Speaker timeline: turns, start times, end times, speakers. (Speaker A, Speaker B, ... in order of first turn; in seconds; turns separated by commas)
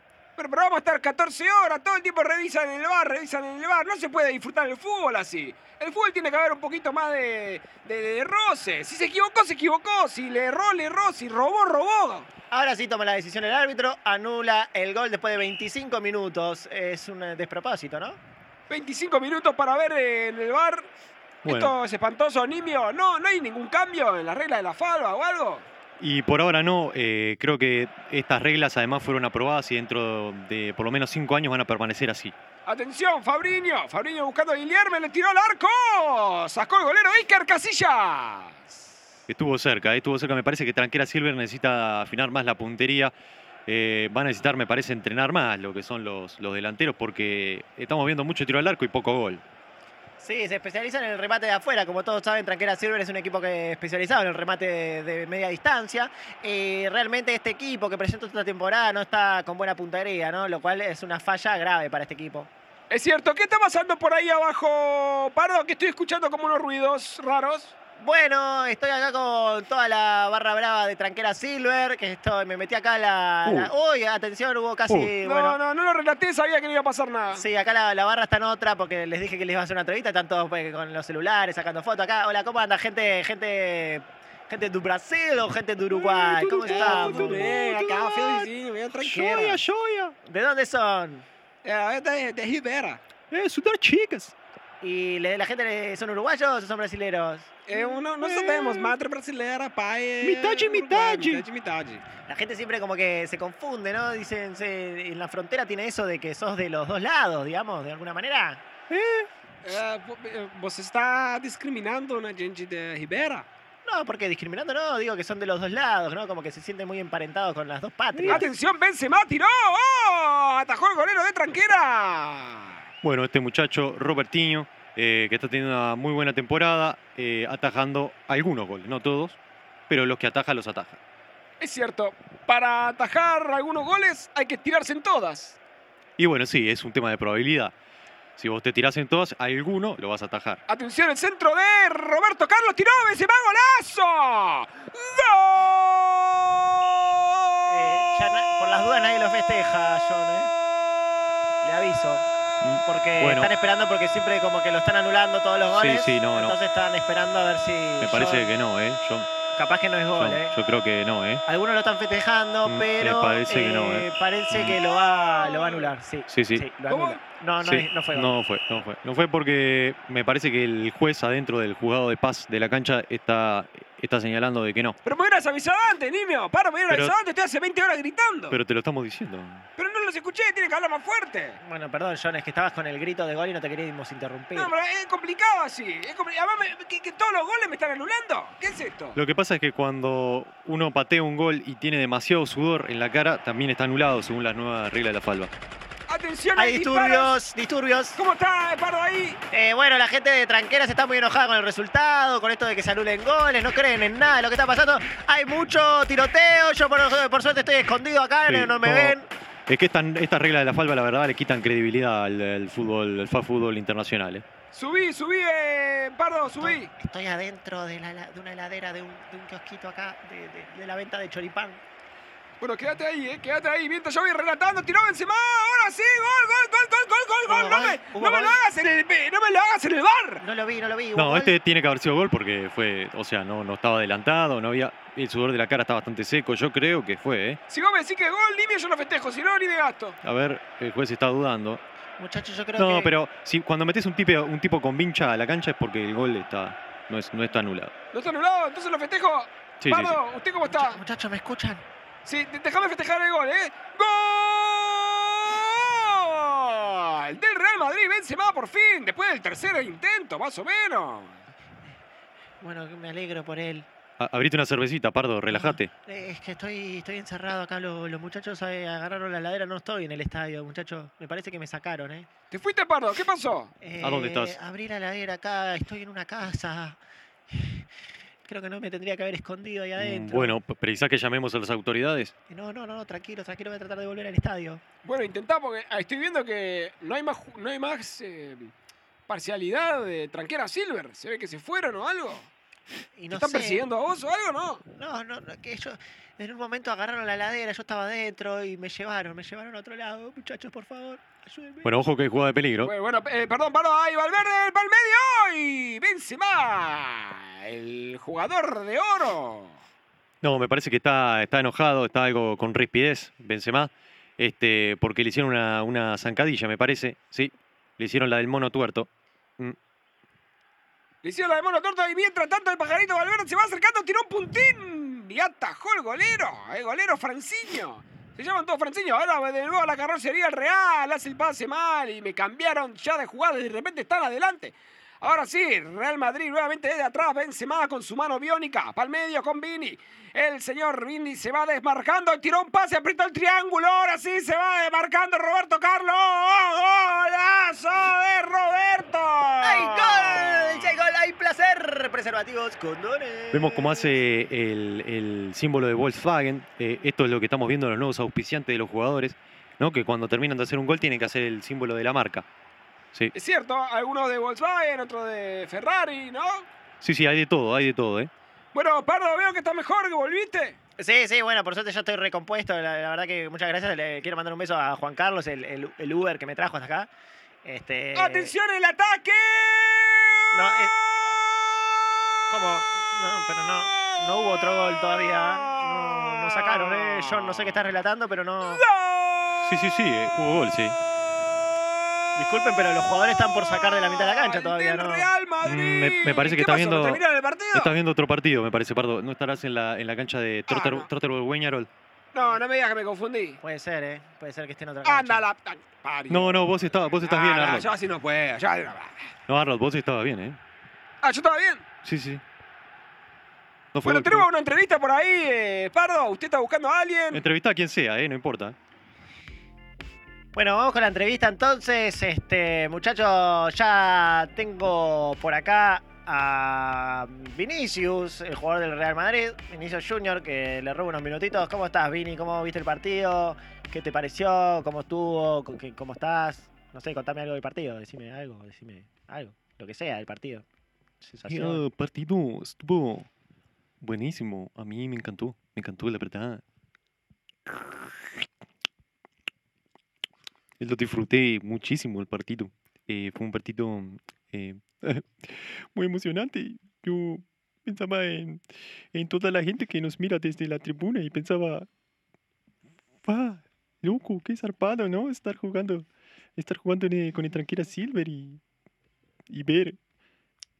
Speaker A: 0.4-12.3, Speaker B: 12.5-18.2, Speaker A: 18.7-20.9, Speaker A: 21.4-25.7, Speaker C: 21.4-21.8, Speaker C: 26.0-32.4, Speaker A: 32.7-38.7, Speaker C: 39.3-43.1, Speaker C: 43.7-49.4, Speaker B: 50.2-62.5, Speaker A: 62.9-67.8, Speaker B: 68.0-75.6, Speaker C: 73.4-73.7, Speaker C: 74.9-75.1, Speaker A: 75.2-77.4, Speaker B: 77.3-87.5, Speaker C: 85.9-90.1, Speaker A: 86.6-89.6, Speaker B: 90.2-91.2, Speaker A: 91.6-93.0, Speaker C: 93.3-94.3, Speaker B: 94.8-97.5, Speaker A: 97.7-102.0, Speaker C: 97.7-98.9, Speaker C: 100.2-101.5, Speaker B: 102.2-108.6, Speaker C: 108.9-109.3, Speaker A: 109.6-113.5, Speaker B: 113.8-118.5, Speaker C: 118.1-118.4, Speaker A: 118.2-122.8, Speaker C: 123.0-129.4, Speaker C: 129.9-131.0, Speaker A: 131.6-135.6, Speaker C: 136.2-137.7, Speaker C: 138.4-140.6, Speaker A: 140.7-145.9, Speaker B: 147.7-150.5, Speaker B: 151.6-152.2, Speaker C: 152.6-153.5, Speaker B: 152.8-158.5, Speaker C: 155.7-156.5, Speaker C: 158.0-159.3, Speaker B: 159.6-160.6, Speaker C: 160.1-161.4, Speaker B: 161.4-168.3, Speaker C: 162.6-164.8, Speaker A: 165.3-165.9, Speaker C: 166.3-166.6, Speaker A: 166.9-167.2, Speaker C: 167.6-175.0, Speaker A: 175.1-178.6, Speaker C: 176.9-177.1, Speaker C: 178.5-179.7, Speaker A: 179.8-181.6, Speaker B: 181.6-184.7, Speaker A: 184.5-189.2, Speaker C: 189.1-195.5, Speaker A: 196.1-197.4, Speaker B: 196.6-198.2, Speaker A: 198.2-199.4, Speaker B: 199.5-209.3, Speaker C: 208.5-209.2, Speaker C: 209.7-214.4, Speaker A: 214.7-216.9, Speaker B: 216.6-221.8, Speaker A: 222.6-230.4, Speaker B: 227.5-228.6, Speaker B: 230.4-231.6, Speaker C: 231.1-237.6, Speaker A: 237.7-240.2, Speaker C: 240.2-241.8, Speaker B: 242.2-243.2, Speaker C: 242.8-247.9, Speaker A: 248.1-251.0, Speaker C: 249.8-250.2, Speaker B: 250.7-251.8, Speaker A: 252.2-261.4, Speaker B: 262.6-263.9, Speaker C: 264.2-265.9, Speaker B: 265.5-272.3, Speaker A: 272.5-273.7, Speaker B: 273.8-277.9, Speaker C: 274.0-274.6, Speaker B: 278.4-280.6, Speaker C: 280.0-282.3, Speaker B: 282.5-284.8, Speaker A: 285.0-288.7, Speaker A: 289.3-292.5, Speaker B: 293.1-293.9, Speaker A: 293.3-294.8, Speaker B: 294.9-302.0, Speaker C: 301.8-302.9, Speaker A: 302.8-309.8, Speaker C: 310.4-319.8, Speaker A: 321.2-350.9, Speaker B: 349.6-354.2, Speaker C: 353.5-362.5, Speaker A: 363.3-366.6, Speaker C: 367.0-368.3, Speaker A: 368.7-370.8, Speaker B: 371.0-377.1, Speaker B: 377.6-378.5, Speaker A: 378.1-380.4, Speaker B: 380.5-380.9, Speaker B: 382.5-388.8, Speaker A: 385.3-387.9, Speaker A: 388.6-389.5, Speaker C: 389.6-391.0, Speaker B: 392.4-395.3, Speaker A: 393.5-397.9, Speaker C: 395.6-401.9, Speaker A: 400.7-401.1, Speaker A: 402.3-403.6, Speaker B: 403.6-405.4, Speaker A: 405.0-409.3, Speaker C: 406.3-407.9, Speaker C: 409.5-410.6, Speaker A: 411.2-411.8, Speaker C: 412.0-412.4, Speaker C: 413.9-414.5, Speaker A: 414.0-417.4, Speaker C: 417.3-418.8, Speaker B: 420.5-440.6, Speaker B: 441.2-441.9, Speaker C: 441.4-443.3, Speaker C: 444.0-446.6, Speaker C: 447.7-448.0, Speaker C: 450.8-461.9, Speaker C: 463.2-468.6, Speaker C: 469.5-470.0